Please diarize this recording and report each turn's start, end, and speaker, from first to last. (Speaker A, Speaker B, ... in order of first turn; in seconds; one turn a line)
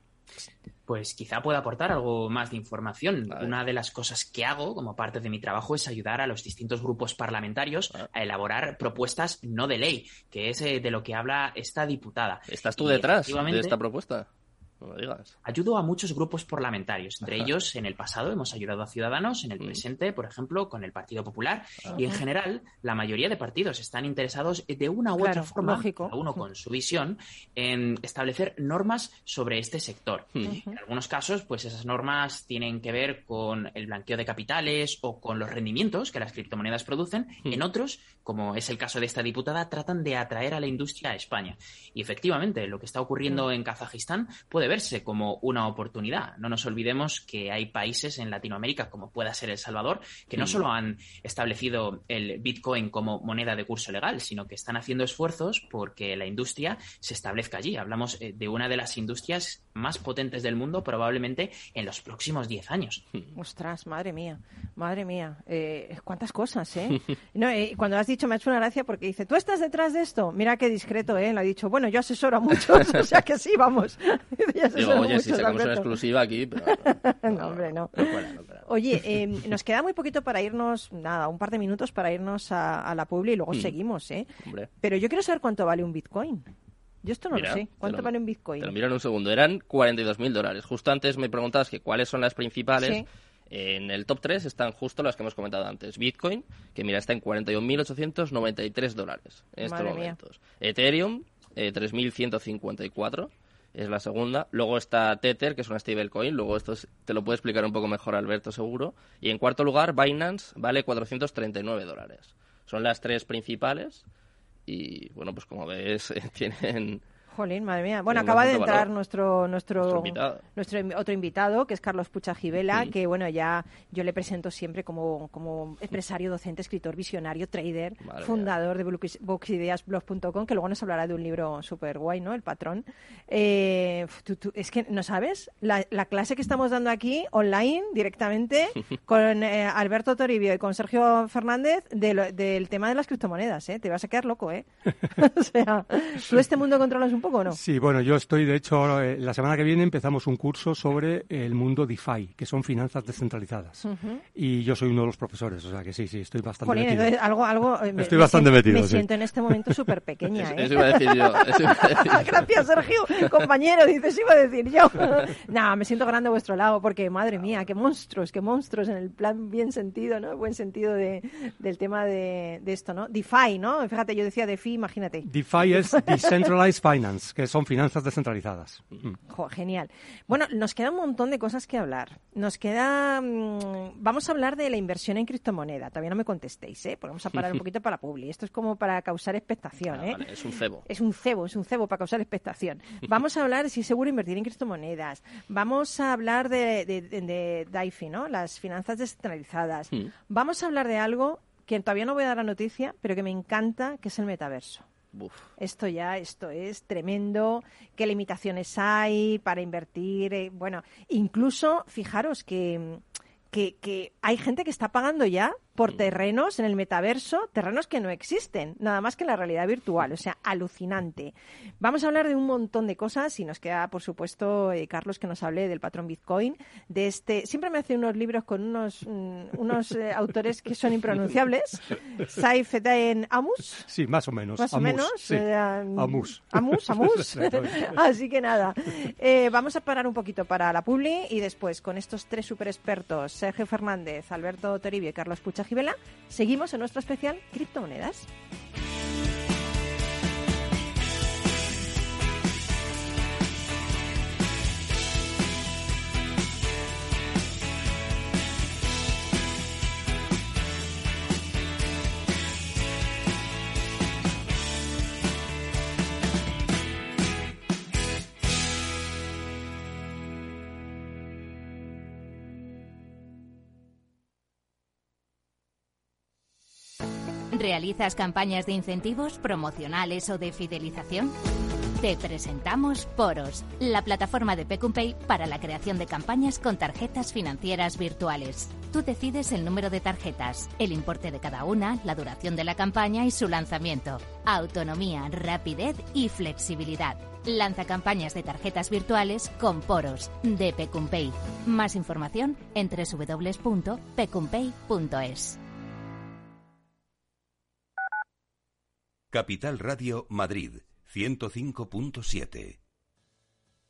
Speaker A: 0.9-13.8
Speaker B: 3.3-3.5
Speaker B: 12.5-14.3
Speaker B: 14.8-15.3
Speaker A: 15.4-63.0
Speaker C: 25.2-26.2
Speaker C: 30.4-30.8
Speaker B: 50.4-50.6
Speaker C: 63.3-75.9
Speaker B: 74.8-78.7
Speaker C: 76.7-84.3
Speaker B: 84.4-84.7
Speaker C: 84.8-86.5
Speaker C: 87.0-88.7
Speaker B: 87.3-114.0
Speaker C: 92.8-93.0
Speaker C: 99.6-100.2
Speaker B: 114.7-117.0
Speaker C: 117.3-147.6
Speaker B: 118.1-118.9
Speaker B: 119.8-120.4
Speaker B: 128.0-128.5
Speaker D: 147.5-157.1
Speaker C: 153.8-154.2
Speaker C: 156.6-176.5
Speaker D: 158.0-159.8
Speaker B: 160.4-162.4
Speaker D: 175.2-179.2
Speaker C: 179.3-190.2
Speaker B: 189.9-190.8
Speaker C: 190.8-204.8
Speaker B: 205.1-205.5
Speaker C: 205.6-233.9
Speaker D: 233.9-237.9
Speaker C: 234.6-248.3
Speaker E: 277.5-281.4
Speaker E: 282.0-305.6
Speaker F: 309.3-312.8